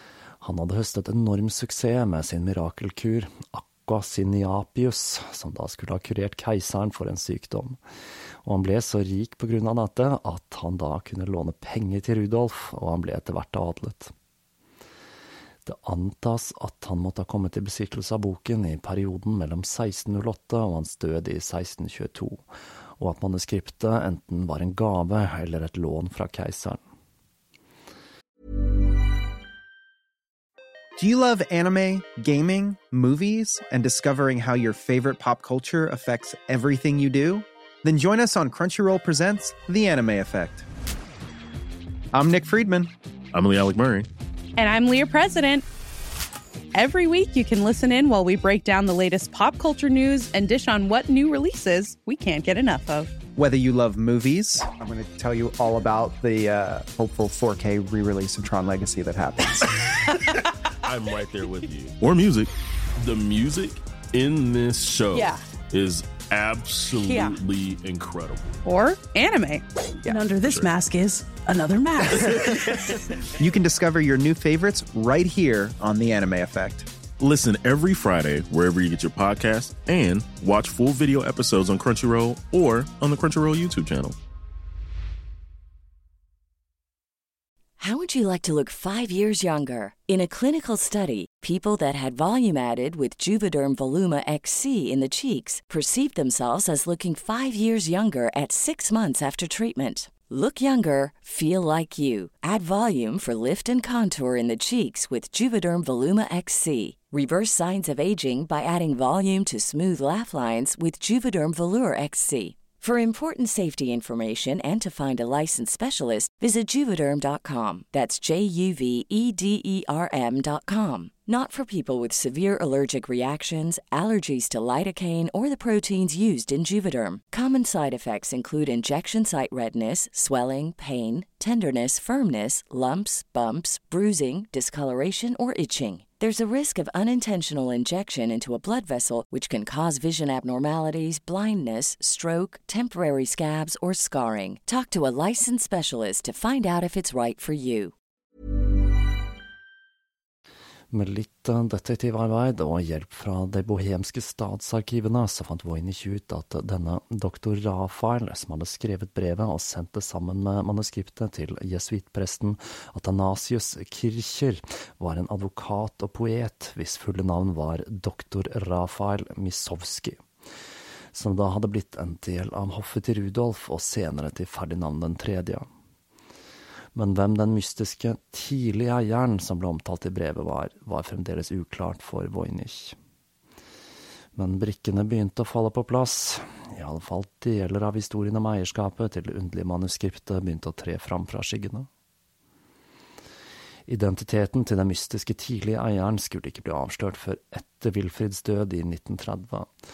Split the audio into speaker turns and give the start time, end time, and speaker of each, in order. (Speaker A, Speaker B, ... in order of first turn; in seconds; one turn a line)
Speaker A: 0.4-7.8
Speaker A: 8.4-14.1
Speaker A: 15.7-22.4
Speaker A: 23.0-26.8
Speaker B: 31.0-40.7
Speaker B: 42.1-42.9
Speaker C: 43.3-44.1
Speaker D: 44.6-45.6
Speaker D: 46.7-53.1
Speaker B: 53.4-59.7
Speaker C: 60.9-68.5
Speaker D: 65.1-65.4
Speaker D: 67.0-67.4
Speaker D: 68.7-69.6
Speaker E: 70.0-72.8
Speaker C: 70.3-70.7
Speaker B: 73.4-76.9
Speaker C: 77.2-84.2
Speaker F: 87.8-147.9
Speaker A: 150.9-170.2
Speaker A: 171.1-175.7
Speaker A: 176.9-183.0
Speaker A: 184.3-191.9
Speaker A: 193.9-199.7